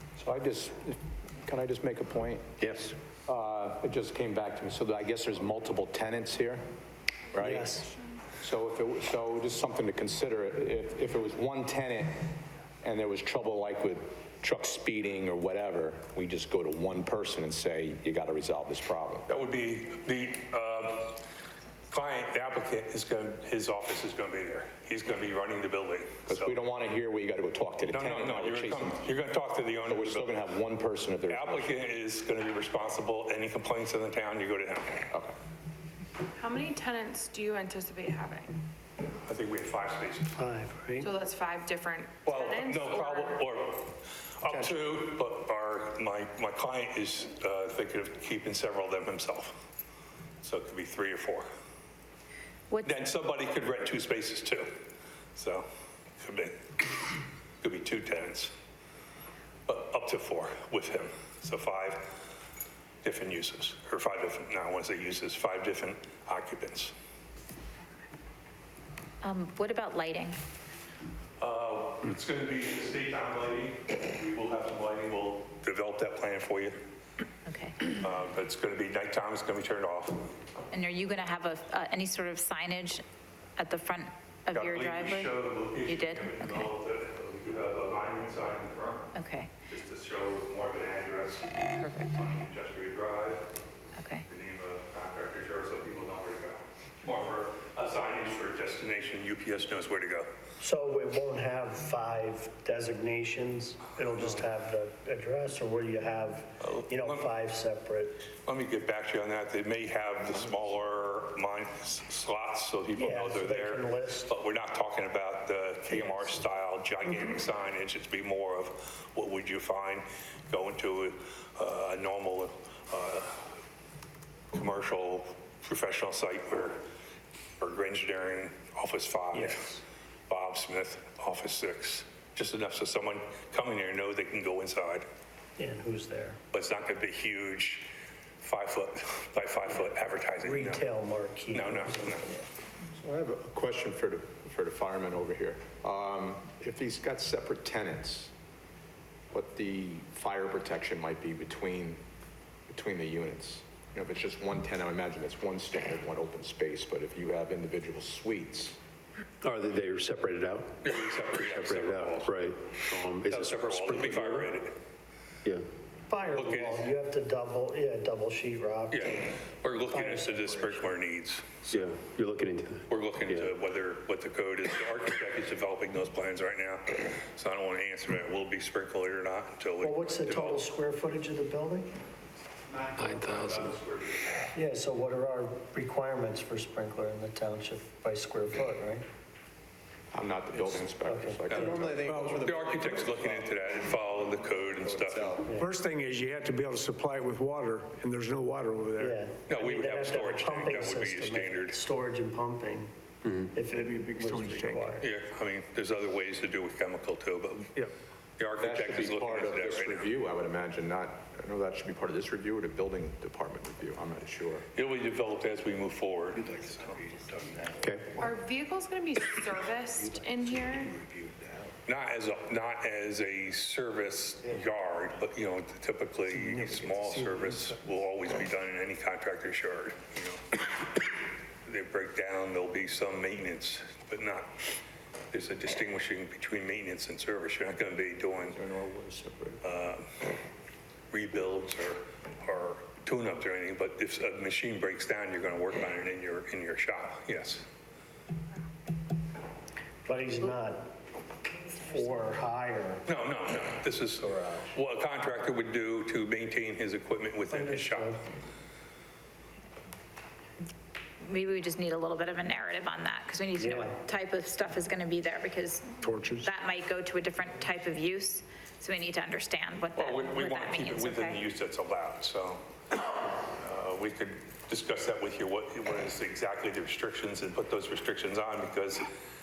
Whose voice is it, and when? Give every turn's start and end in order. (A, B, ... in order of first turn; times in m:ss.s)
0:00.2-0:02.5 A
0:02.6-0:02.9 B
0:03.2-0:06.6 A
0:07.3-0:07.8 A
0:07.4-0:07.8 C
0:08.4-0:12.2 A
0:12.8-0:19.3 A
0:19.3-0:21.2 D
0:21.9-0:26.6 D
0:26.3-0:29.0 A
0:27.9-0:30.3 D
0:29.9-0:31.8 A
0:31.3-0:35.0 D
0:36.4-0:38.6 E
0:39.2-0:40.4 D
0:40.4-0:41.1 C
0:41.0-0:43.4 E
0:42.2-0:49.5 D
0:44.4-0:44.8 A
0:50.4-0:51.5 D
0:52.8-0:54.7 D
0:55.4-0:55.7 D
0:56.2-0:57.0 D
0:57.6-0:58.5 D
0:59.7-1:02.1 D
1:03.0-1:06.9 D
1:09.2-1:10.4 F
1:11.4-1:16.8 D
1:17.4-1:17.9 F
1:17.9-1:20.2 D
1:20.7-1:23.0 F
1:23.6-1:25.3 F
1:24.5-1:29.1 D
1:25.8-1:26.6 F
1:29.1-1:29.5 F
1:29.6-1:33.4 D
1:31.8-1:32.1 F
1:34.0-1:34.2 F
1:34.3-1:40.3 D
1:40.6-1:48.2 C
1:46.6-1:47.3 D
1:48.4-2:03.5 D
1:53.0-1:54.3 C
2:04.5-2:06.8 D
2:07.6-2:09.7 D
2:09.3-2:09.8 C
2:10.3-2:15.0 D
2:15.6-2:16.4 C
2:16.5-2:17.9 D
2:18.4-2:20.8 D
2:20.4-2:22.5 C
2:21.5-2:22.3 D
2:22.9-2:28.3 A
2:29.3-2:32.0 A
2:32.7-2:38.8 A
2:39.4-2:44.5 B
2:40.8-2:42.7 D
2:43.2-2:44.8 D
2:46.1-2:50.9 C
2:46.3-2:46.9 D
2:48.9-2:51.8 D
2:51.7-2:53.5 B
2:52.9-3:00.6 D
2:59.8-3:01.9 C
3:02.7-3:04.5 D
3:03.0-3:03.7 B
3:04.5-3:09.0 C
3:10.1-3:13.6 A
3:11.0-3:11.5 C
3:11.8-3:12.5 G
3:12.4-3:15.4 D
3:14.6-3:15.5 A
3:15.4-3:15.7 C
3:15.6-3:19.2 G
3:19.0-3:22.9 C
3:19.5-3:21.8 D
3:23.4-3:25.0 C
3:23.7-3:24.9 G
3:25.0-3:30.1 D
3:28.6-3:34.6 A
3:34.7-3:36.7 D
3:36.7-3:37.9 A
3:37.8-3:38.2 B
3:38.2-3:41.0 E
3:41.8-3:50.6 D
3:51.6-3:54.5 D
3:55.3-3:58.6 D
3:58.5-3:59.6 A
3:59.6-4:00.1 D
4:01.1-4:07.6 D
4:10.0-4:10.9 C
4:11.7-4:13.0 C
4:13.0-4:18.2 D
4:14.2-4:14.6 C
4:17.5-4:18.2 C
4:21.2-4:31.4 F
4:23.6-4:23.9 C
4:26.0-4:26.5 G
4:30.0-4:32.6 D
4:33.4-4:39.0 D